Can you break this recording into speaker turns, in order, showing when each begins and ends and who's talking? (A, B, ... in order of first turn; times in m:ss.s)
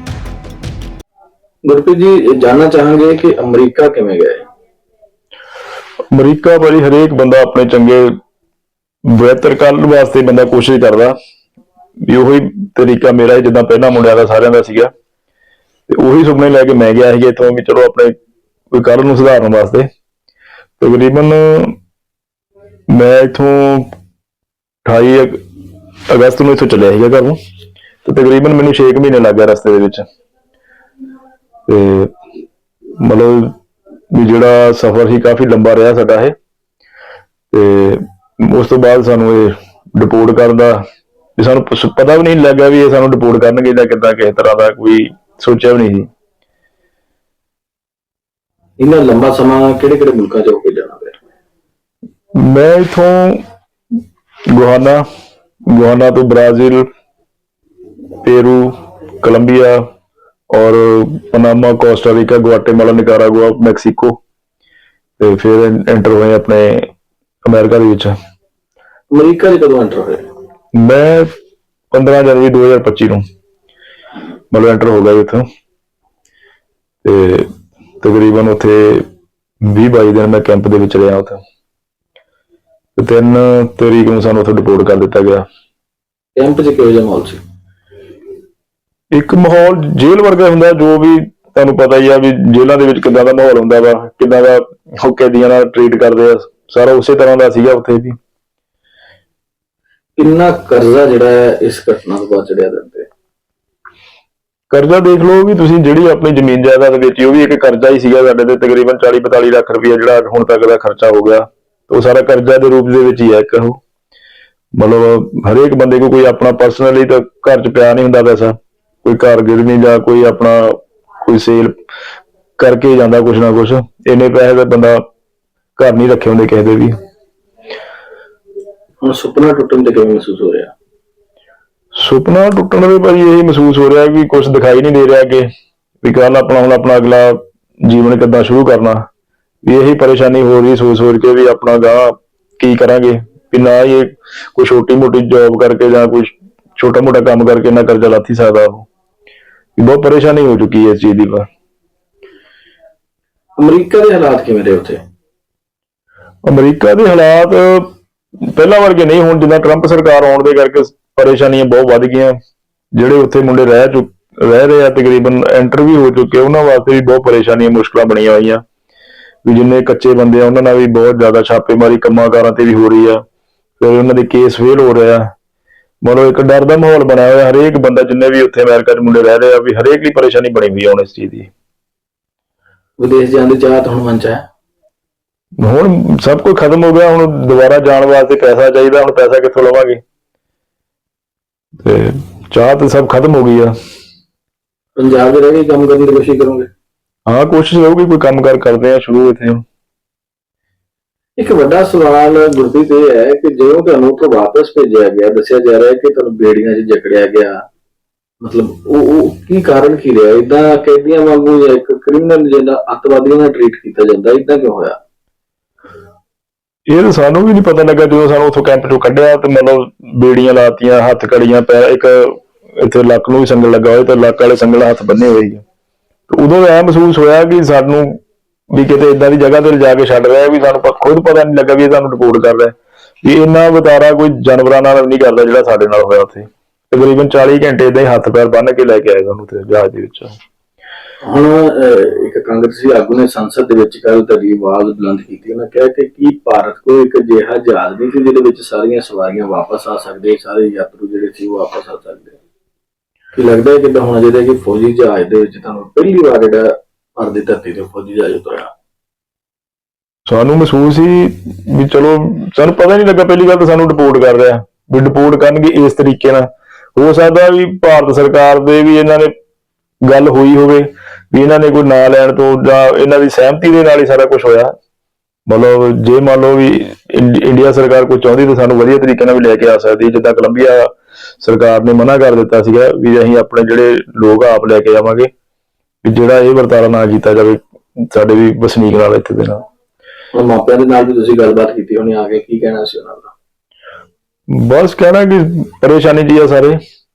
0:01.6-0:04.4 A
0:06.1-0:08.1 B
0:09.1-0:11.2 B
0:12.1-0:14.9 B
0:15.9-0:18.2 B
0:18.7-0:19.9 B
0:20.8-0:21.8 B
0:22.9-0:23.9 B
0:24.8-0:25.4 B
0:26.1-0:27.4 B
0:28.0-0:30.0 B
0:31.7-0:32.1 B
0:33.0-0:33.5 B
0:34.1-0:36.3 B
0:37.5-0:40.8 B
0:41.4-0:46.1 B
0:48.8-0:51.2 A
0:52.4-0:53.4 B
0:54.5-0:55.0 B
0:55.7-0:56.8 B
0:58.2-0:59.8 B
1:00.5-1:04.2 B
1:05.2-1:06.9 B
1:07.4-1:08.1 B
1:09.1-1:10.2 A
1:10.7-1:11.3 B
1:11.9-1:13.2 B
1:14.5-1:15.4 B
1:17.0-1:17.5 B
1:18.0-1:19.1 B
1:19.6-1:21.4 B
1:23.0-1:25.4 B
1:26.3-1:27.4 A
1:29.1-1:38.2 B
1:40.2-1:43.1 A
1:44.7-1:53.8 B
1:54.8-2:01.8 B
2:02.6-2:05.0 B
2:05.8-2:06.9 B
2:09.0-2:10.7 A
2:12.0-2:15.5 B
2:16.0-2:19.0 B
2:19.6-2:28.9 B
2:29.8-2:31.4 B
2:33.6-2:35.0 A
2:36.5-2:37.9 B
2:38.4-2:42.3 B
2:42.9-2:48.6 B
2:49.4-2:53.2 B
2:53.8-2:55.3 B
2:56.0-3:01.5 B
3:03.0-3:04.4 A
3:05.6-3:10.0 B
3:11.8-3:13.7 B
3:15.0-3:16.7 A
3:17.2-3:19.6 B
3:21.4-3:27.6 A
3:28.4-3:35.0 A
3:36.9-3:45.6 B
3:46.3-3:48.2 B
3:48.7-4:00.3 B
4:01.2-4:12.4 A
4:13.3-4:18.7 A
4:20.3-4:29.3 B
4:30.0-4:34.7 B
4:35.5-4:40.9 B
4:41.4-4:45.3 B
4:46.0-4:49.6 B
4:50.3-4:53.3 A
4:54.5-4:56.8 B